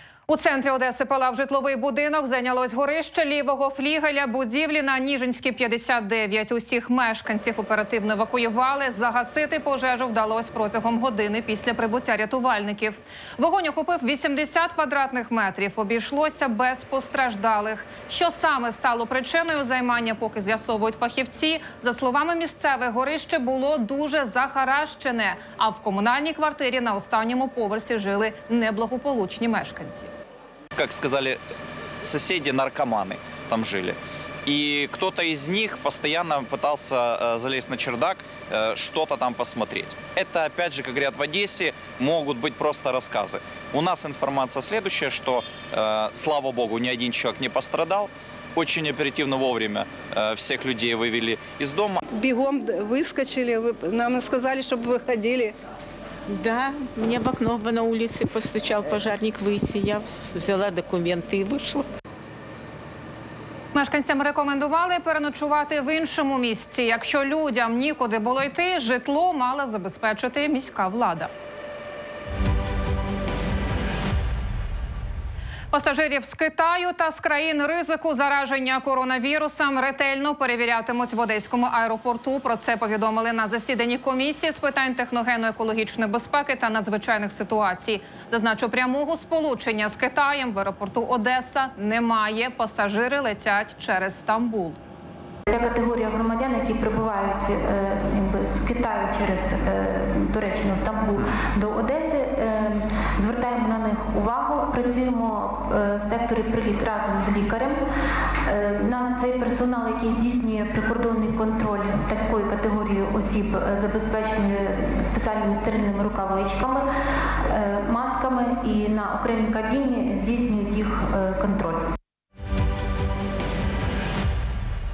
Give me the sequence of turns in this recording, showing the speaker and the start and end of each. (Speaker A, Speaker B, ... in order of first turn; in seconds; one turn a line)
Speaker A: 0.3-30.1
Speaker B: 30.8-31.4
Speaker B: 32.0-52.0
Speaker C: 52.1-55.5
Speaker D: 56.3-61.9
Speaker A: 63.7-71.3
Speaker A: 75.7-94.8
Speaker E: 95.5-107.8
Speaker E: 108.5-116.8
Speaker E: 117.5-121.8